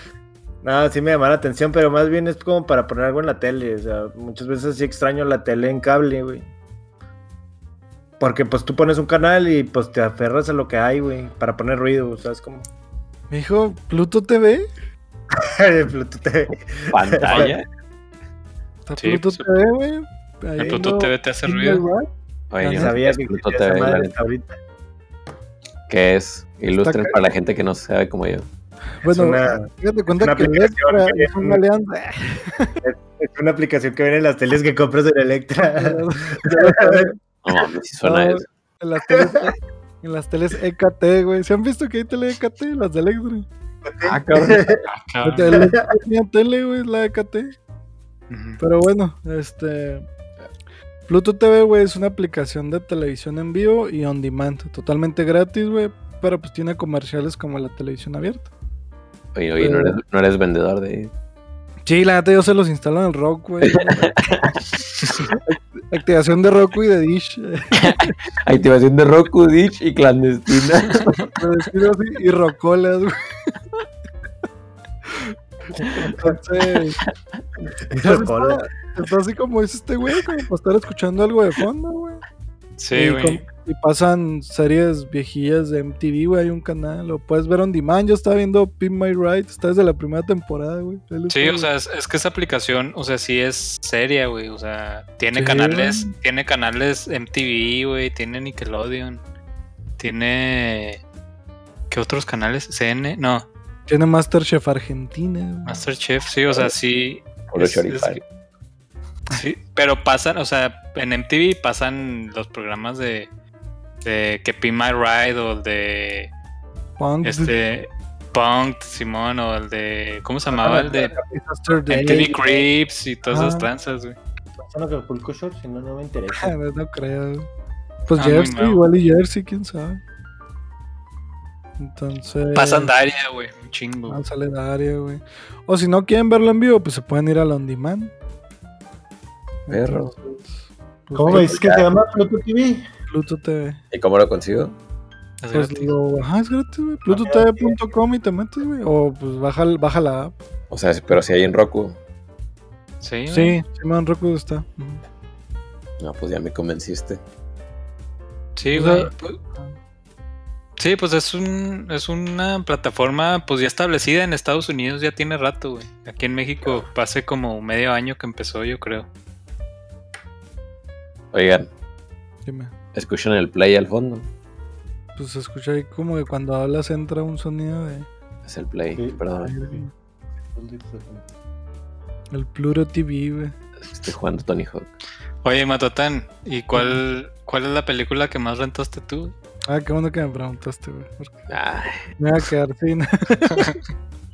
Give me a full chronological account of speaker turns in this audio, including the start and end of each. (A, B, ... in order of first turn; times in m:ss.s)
0:00.6-0:06.5 A
0:08.2-0:12.7 A
0:13.3-0:14.7 B
0:15.3-0:17.5 A
0:16.9-0:17.6 C
0:18.9-0:22.1 B
0:19.0-0:19.4 D
0:20.6-0:21.8 D
0:22.5-0:24.1 C
0:22.6-0:23.0 B
0:22.7-0:24.6 A
0:25.9-0:28.5 C
0:26.8-0:27.2 B
0:29.0-0:32.8 B
0:29.1-0:29.7 A
0:30.2-0:31.6 A
0:32.8-0:37.1 A
0:35.7-0:37.2 B
0:37.4-0:38.4 C
0:38.0-0:43.4 B
0:39.1-0:39.4 A
0:43.8-0:44.8 A
0:44.0-0:44.9 C
0:45.1-0:45.6 D
0:45.2-0:47.6 B
0:45.5-0:45.8 A
0:48.3-0:48.6 D
0:48.6-0:50.0 B
0:51.1-0:58.5 B
0:59.4-1:01.1 C
0:59.6-1:00.0 B
1:01.9-1:04.1 B
1:03.6-1:04.6 C
1:05.3-1:08.1 B
1:07.7-1:11.3 C
1:11.4-1:13.6 B
1:15.1-1:17.0 B
1:17.9-1:18.6 A
1:18.0-1:22.2 B
1:22.8-1:23.4 D
1:22.9-1:31.7 B
1:31.3-1:39.2 D
1:35.4-1:36.1 B
1:40.0-1:41.0 D
1:41.9-1:43.5 D
1:43.9-1:45.8 B
1:45.6-1:48.2 D
1:47.5-1:48.2 C
1:49.3-1:53.3 D
1:54.0-1:56.3 D
1:57.0-1:57.5 B
1:57.2-2:01.1 D
2:00.5-2:02.7 A
2:00.6-2:02.4 B
2:01.9-2:04.2 D
2:03.3-2:03.7 B
2:04.6-2:06.6 A
2:06.4-2:07.5 B
2:08.1-2:10.0 B
2:08.1-2:08.8 D
2:11.8-2:12.9 B
2:12.6-2:14.2 D
2:14.1-2:18.1 B
2:19.7-2:21.5 B
2:19.7-2:20.1 C
2:21.2-2:22.9 A
2:21.3-2:21.9 C
2:23.1-2:23.8 B
2:23.9-2:24.7 C
2:25.4-2:25.9 D
2:25.5-2:30.3 B
2:27.1-2:27.8 A
2:30.7-2:32.0 C
2:33.0-2:33.6 D
2:33.3-2:35.0 B
2:36.0-2:37.2 C
2:38.6-2:39.4 D
2:38.7-2:39.7 B
2:40.8-2:49.1 D
2:51.3-2:51.7 C
2:52.4-2:52.7 B
2:52.9-2:54.3 C
2:55.2-2:58.1 B
2:58.4-2:59.6 C
2:59.4-2:59.9 B
3:00.6-3:01.2 A
3:02.3-3:03.5 B
3:03.9-3:04.9 C
3:05.4-3:09.3 D
3:06.7-3:07.0 B
3:09.7-3:11.5 B
3:11.5-3:12.1 C
3:12.2-3:13.7 B